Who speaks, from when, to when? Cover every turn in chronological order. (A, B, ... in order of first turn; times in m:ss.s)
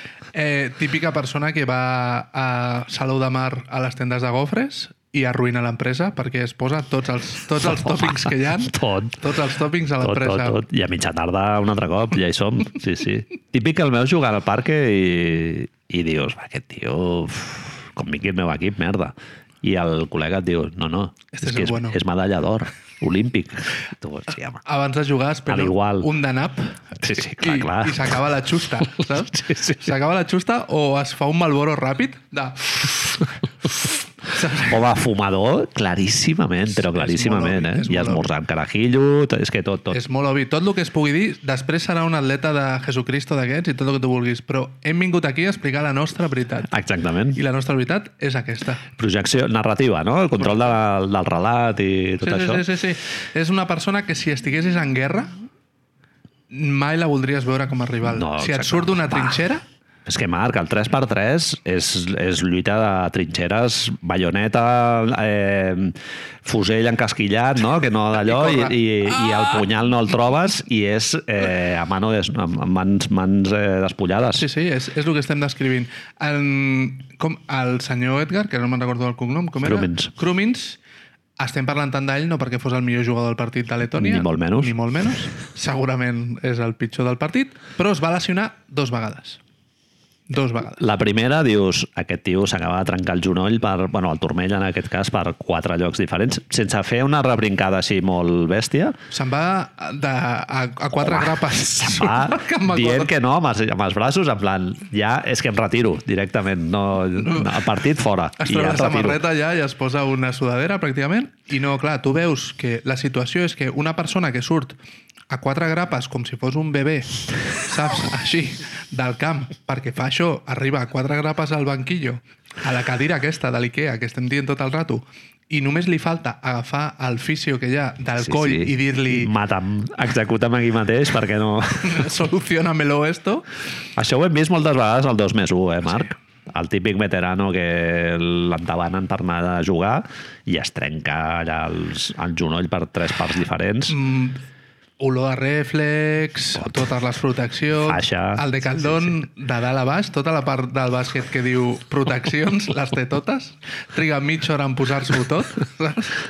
0:00.3-0:10.6 A
0:07.6-0:09.2 B
0:10.0-0:24.6 B
0:21.3-0:22.0 A
0:24.6-0:33.2 A
0:25.5-0:26.1 B
0:27.0-0:28.2 B
0:29.3-0:29.9 B
0:34.3-0:34.7 A
0:34.6-0:40.0 B
0:36.9-0:38.2 A
0:39.9-0:46.7 A
0:46.7-0:47.4 B
0:47.3-0:48.9 A
0:49.0-0:52.6 B
0:50.4-0:50.7 A
0:52.2-0:55.3 A
0:56.5-0:59.6 A
0:58.0-0:59.4 B
1:00.0-1:14.4 B
1:08.2-1:09.6 A
1:14.4-1:20.8 A
1:19.6-1:20.1 B
1:21.4-1:29.4 A
1:24.0-1:24.7 B
1:30.3-1:30.8 A
1:30.8-1:39.0 B
1:39.1-1:43.1 A
1:41.0-1:49.2 B
1:47.2-1:47.6 A
1:48.4-1:54.8 A
1:55.3-2:09.3 A
2:08.2-2:12.1 B
2:11.8-2:13.5 A
2:14.0-2:24.0 B
2:23.9-2:24.4 A
2:25.0-2:36.2 A
2:27.8-2:29.1 B